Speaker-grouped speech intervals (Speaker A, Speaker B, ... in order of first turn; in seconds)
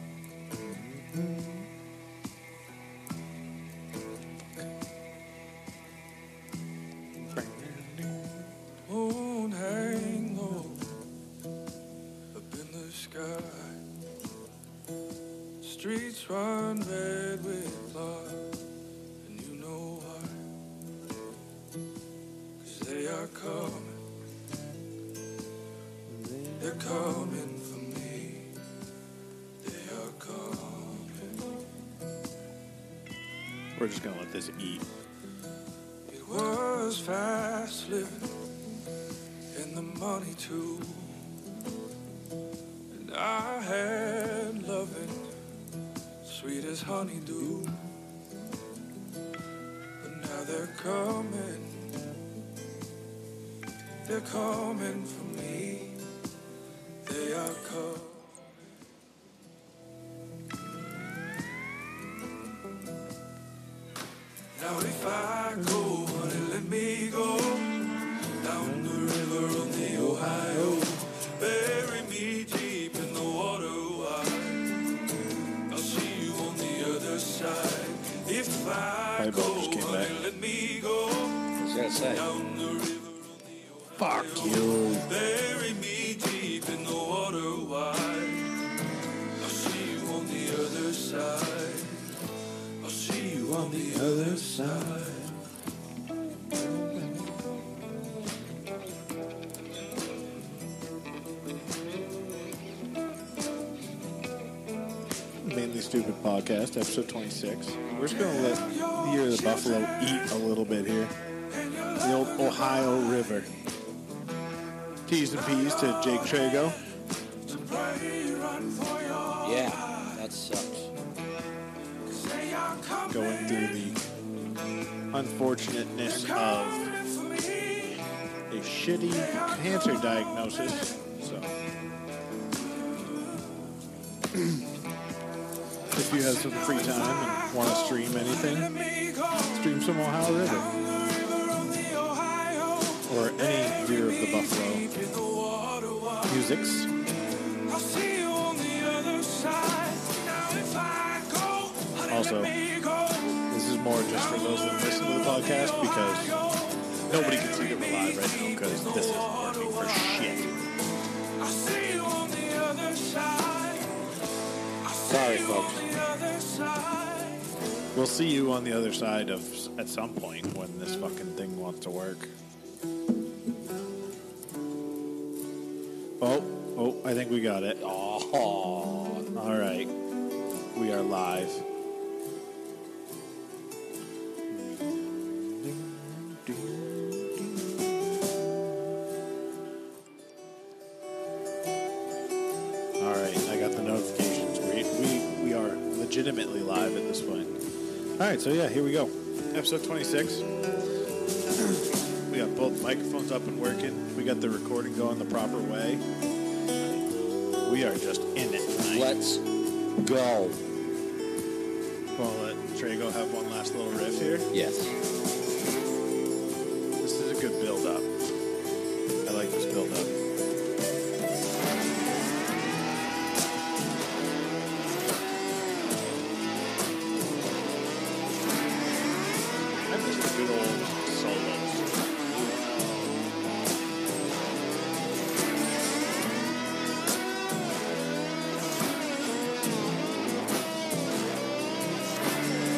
Speaker A: 0.5-1.7, 7.3-8.4, 26.1-26.6, 33.8-34.9, 79.2-80.2, 84.0-85.1, 96.8-97.2, 105.4-111.1, 112.0-113.5, 115.1-116.8, 123.1-124.0, 125.1-126.9, 128.5-131.6, 134.3-134.7, 135.9-138.7, 139.5-140.7, 143.1-144.9, 146.3-146.9, 152.1-152.5, 153.5-156.4, 157.1-160.6, 167.9-172.3, 176.2-177.8, 179.3-179.9, 180.7-181.7, 184.5-187.8, 193.0-197.6, 198.2-200.5, 201.6-206.1, 207.7-209.1, 212.2-214.5, 217.0-218.2, 219.2-220.1, 229.9-231.9
Speaker B: 8.9-11.0, 12.3-13.8, 15.6-18.6, 19.2-20.5, 22.6-24.0, 26.6-28.6, 29.6-31.5, 36.1-38.4, 39.5-41.4, 42.9-45.3, 46.2-47.9, 50.0-52.1, 54.0-56.0, 57.0-58.5, 64.5-74.8, 75.7-81.5, 82.1-88.6, 89.4-92.2, 92.8-95.4, 108.1-110.3, 111.5-113.5, 115.3-120.2, 122.1-123.8, 126.1-128.0, 129.1-130.9, 136.1-139.7, 140.4-146.5, 147.7-153.5, 154.1-160.5, 161.4-164.1, 164.8-167.5
Speaker C: 81.6-82.3, 119.4-120.9, 165.1-165.8, 177.8-179.3, 208.9-209.5, 210.0-210.6, 214.5-215.0